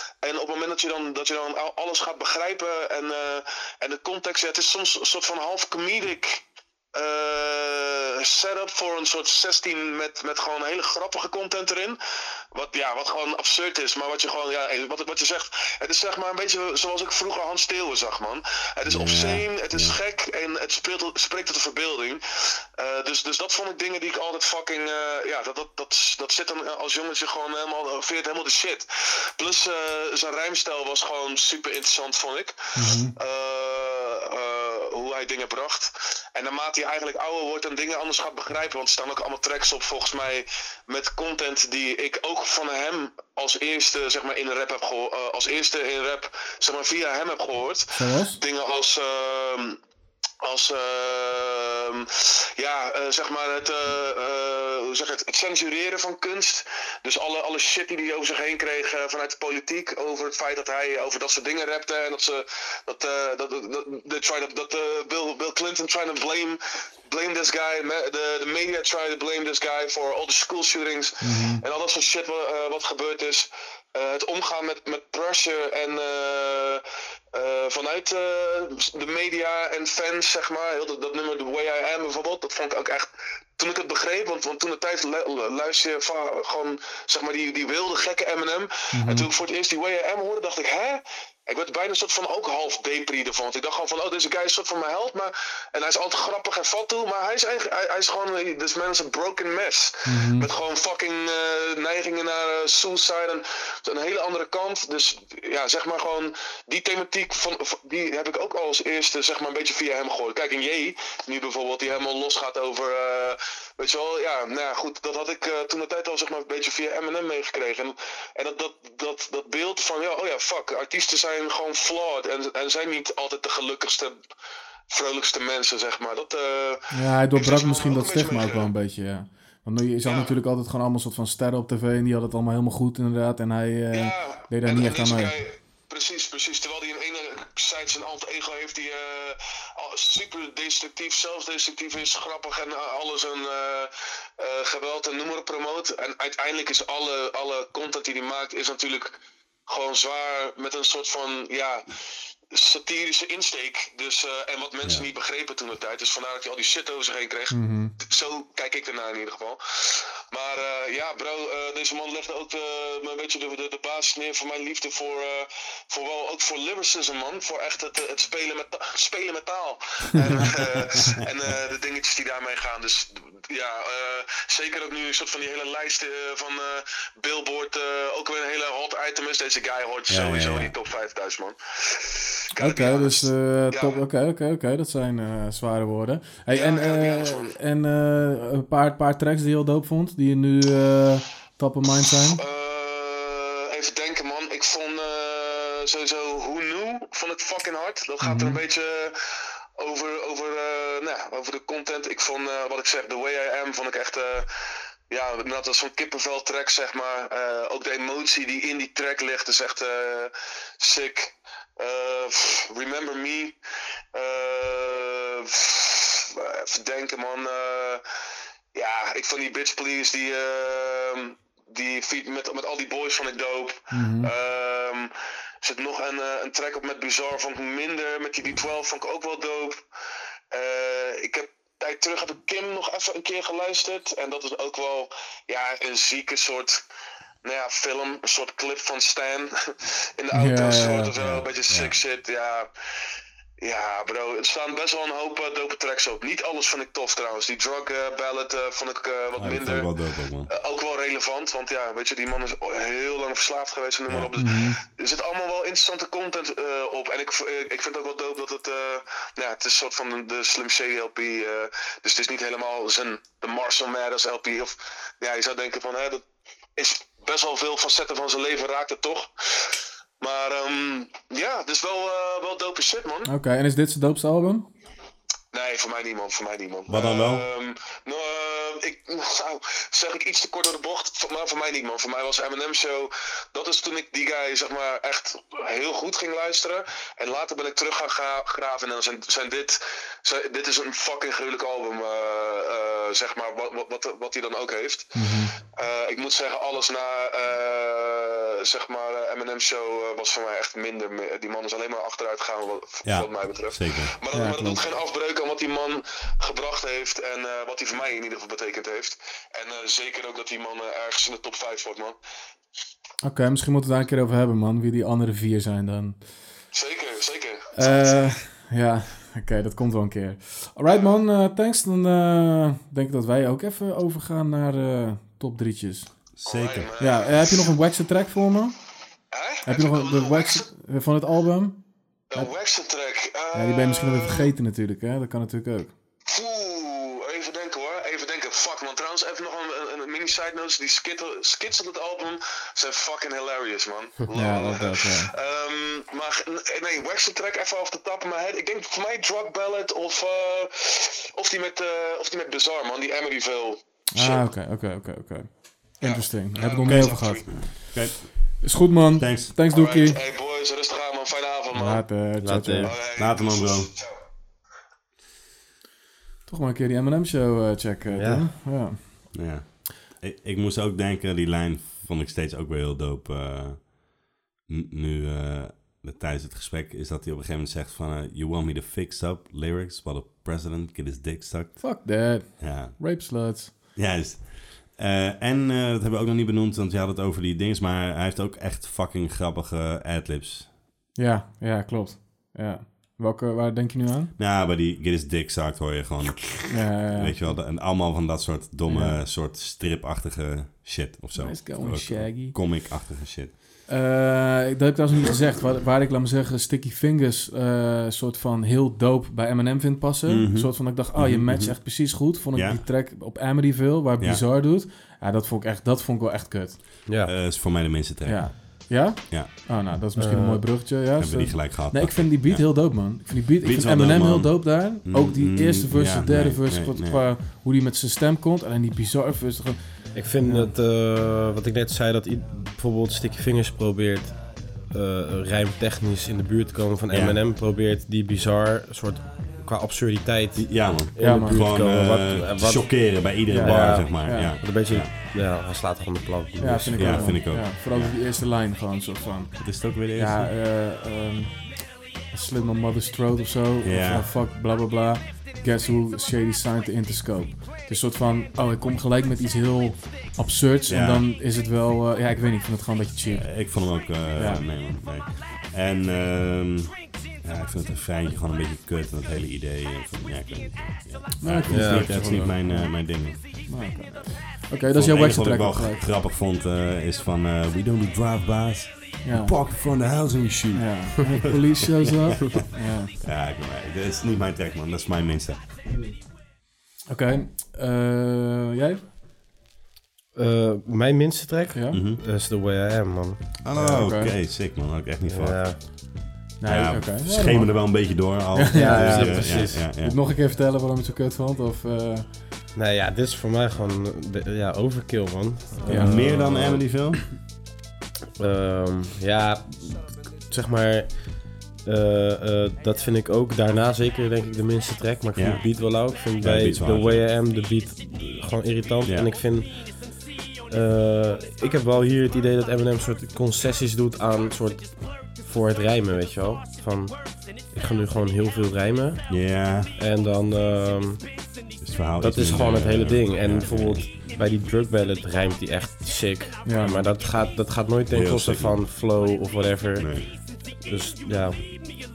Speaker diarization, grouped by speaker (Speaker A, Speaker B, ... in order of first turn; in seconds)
Speaker A: 0.2-6.4, 6.9-12.0, 12.5-22.2, 22.8-28.9, 29.4-49.8, 50.4-124.2, 124.9-128.7, 130.0-130.3, 133.9-151.9, 152.5-184.0, 186.5-187.5, 192.3-199.2, 199.8-204.5, 205.1-213.6, 214.1-218.0, 218.7-229.8, 230.5-236.8, 237.4-242.7, 243.6-249.9, 250.5-266.2, 266.8-273.3, 275.5-312.2, 316.7-318.3, 326.4-327.6, 329.3-330.7, 332.3-334.5, 336.3-354.4, 356.0-357.6, 359.7-362.1, 362.8-364.1
Speaker B: 18.9-20.0, 180.1-180.7, 241.2-241.9, 249.4-250.5, 276.9-277.4, 303.0-304.1, 326.4-326.9, 357.7-359.5, 363.2-363.9, 369.3-390.7, 394.4-403.6, 410.3-412.8, 417.2-419.5, 421.2-427.2, 437.1-437.4, 440.5-445.1, 446.6-448.1, 449.6-450.5, 453.8-454.3, 460.9-461.2, 463.3-473.4, 474.9-482.7, 483.2-485.6, 491.9-492.2, 493.6-496.0, 496.6-500.2, 505.8-507.3, 515.3-517.2, 519.0-519.3, 529.3-529.9, 531.8-534.1, 538.1-538.8, 540.0-540.3
Speaker C: 32.8-33.1, 47.9-48.4, 71.2-71.6, 88.9-89.3, 100.0-100.5, 126.9-135.3, 157.5-157.9, 182.6-192.4, 198.2-198.6, 223.9-224.3, 240.3-241.1, 254.3-254.8, 273.2-274.7, 295.1-295.5, 304.3-304.8, 313.2-316.3, 317.8-326.2, 327.0-328.8, 329.6-332.5, 333.5-335.9, 344.3-345.3, 354.1-357.9, 358.6-360.2, 361.7-362.9, 366.5-369.3, 381.8-383.7, 391.1-394.3, 396.7-397.6, 398.9-399.2, 401.3-402.6, 403.9-416.8, 418.2-430.7, 441.2-441.6, 443.4-444.5, 446.6-463.7, 464.4-464.6, 471.4-473.1, 473.7-476.0, 479.2-479.5, 480.7-483.2, 487.1-489.0, 491.7-492.0, 493.7-494.3, 496.6-502.3, 505.9-506.4, 536.6-537.0
Speaker D: 362.4-362.9, 368.1-368.5, 417.1-417.3, 420.1-420.9, 430.1-447.4, 471.7-472.5, 490.3-494.0, 495.2-496.2, 498.7-499.9, 502.7-506.9, 508.4-531.3, 532.1-540.2, 540.8-541.6